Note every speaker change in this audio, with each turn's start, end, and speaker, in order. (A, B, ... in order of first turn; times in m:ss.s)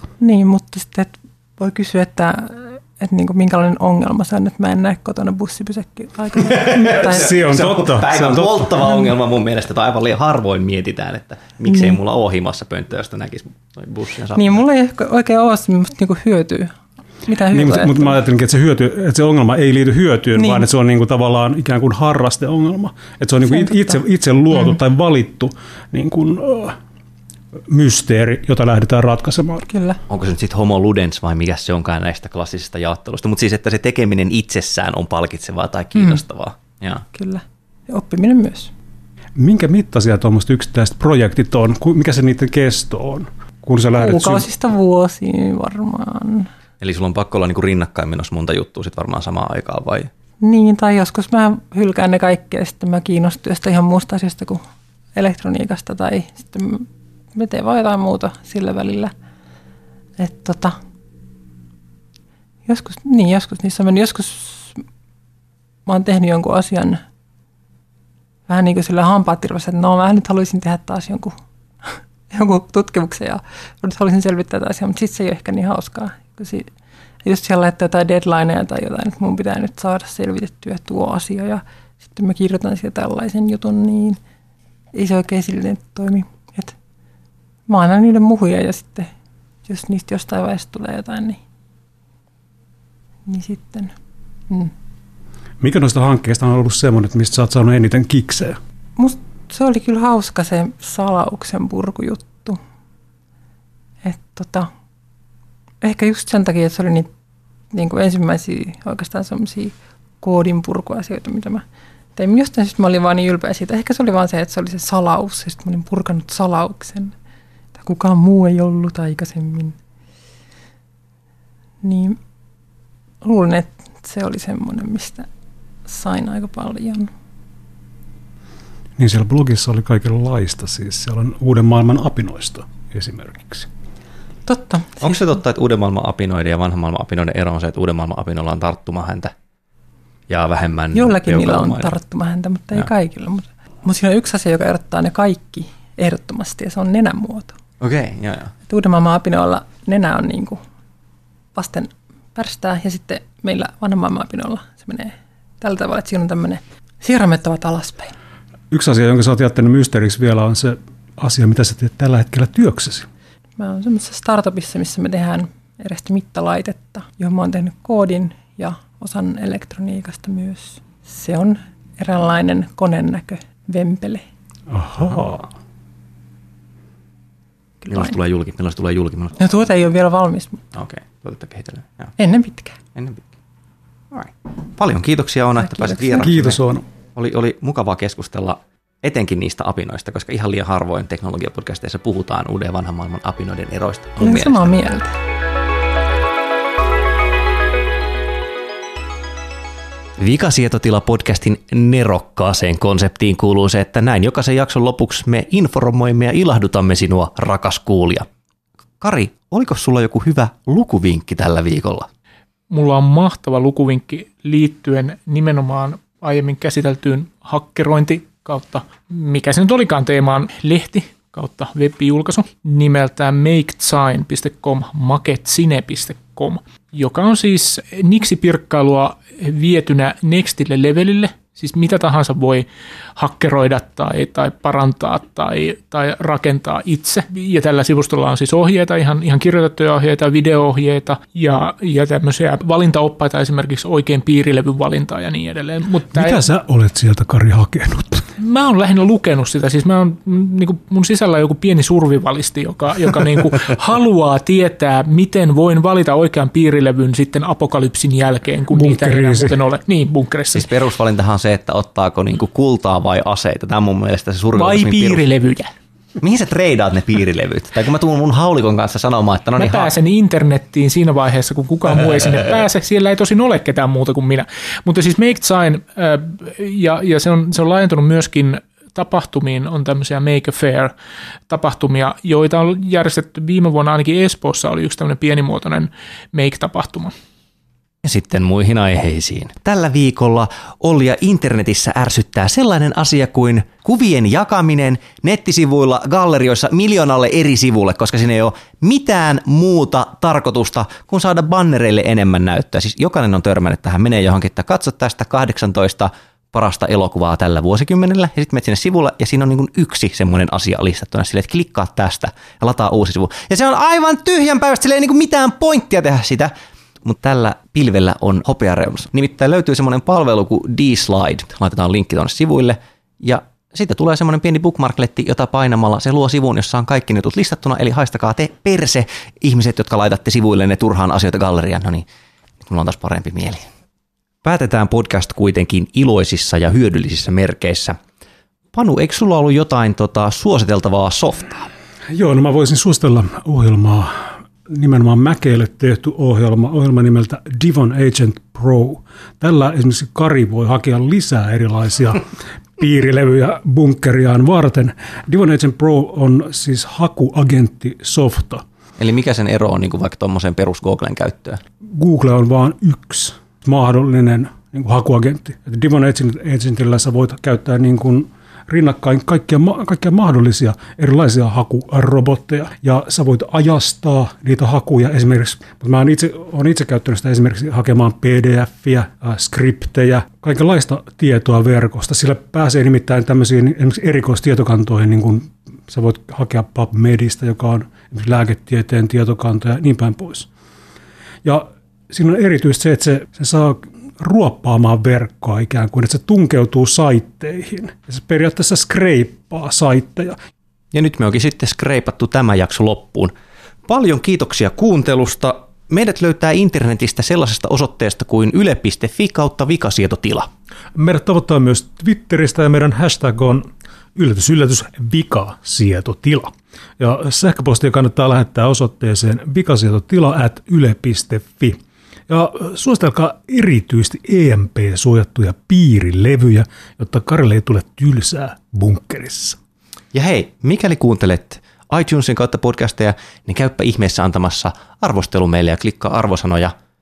0:00.2-0:07.3 A
0:06.4-0:14.6 B
0:06.7-0:08.8 C
0:11.7-0:12.0 A
0:14.3-0:18.2 A
0:17.5-0:26.8 C
0:20.4-0:20.6 A
0:23.4-0:24.0 A
0:27.7-0:29.7 C
0:29.7-0:30.0 A
0:30.1-0:37.0 B
0:35.9-0:36.2 A
0:37.1-0:38.7 A
0:39.4-0:44.5 C
0:44.0-0:46.5 A
0:46.8-0:50.1 B
0:50.4-0:54.6 A
0:55.1-0:59.1 A
1:00.2-1:00.8 A
1:02.6-1:04.8 A
1:05.8-1:07.0 A
1:08.5-1:16.7 A
1:17.2-1:24.2 A
1:24.9-1:26.7 A
1:27.7-1:29.1 A
1:29.6-1:31.4 A
1:33.2-1:33.9 A
1:35.6-1:38.6 C
1:39.0-1:42.6 A
1:44.0-1:44.7 A
1:45.8-1:47.1 A
1:47.7-1:51.6 A
1:52.2-1:57.1 A
1:57.7-1:59.8 A
2:01.8-2:02.2 A
2:03.2-2:05.3 A
2:05.9-2:07.1 A
2:09.0-2:13.7 C
2:14.5-2:15.2 A
2:15.0-2:19.3 B
2:20.3-2:21.9 B
2:20.9-2:27.6 A
2:27.8-2:28.5 B
2:28.7-2:30.6 A
2:31.5-2:38.1 A
2:38.7-2:43.1 C
2:43.6-2:54.2 A
2:54.7-2:55.5 C
2:57.8-2:58.2 A
2:57.9-2:59.4 B
2:59.4-3:00.6 A
3:00.7-3:02.1 B
3:02.2-3:02.8 A
3:02.9-3:03.2 B
3:04.1-3:06.6 B
3:05.6-3:06.3 A
3:06.2-3:06.8 C
3:07.2-3:14.7 B
3:14.2-3:15.1 A
3:20.2-3:28.2 B
3:29.0-3:32.1 B
3:32.7-4:06.4 D
4:06.1-4:08.3 C
4:08.4-4:20.7 D
4:18.7-4:19.6 C
4:20.5-4:25.2 B
4:24.5-4:25.7 D
4:26.2-4:29.9 B
4:29.6-4:40.9 D
4:41.5-4:47.1 D
4:48.0-5:32.0 B
5:32.6-5:33.7 B
5:34.4-5:38.0 B
5:38.7-5:41.7 B
5:42.1-5:52.2 C
5:52.8-5:58.6 C
5:59.0-6:01.6 B
6:01.8-6:30.5 C
6:31.4-6:40.4 C
6:40.9-6:43.3 B
6:43.9-6:50.5 B
6:50.9-7:09.6 C
7:10.1-7:16.7 B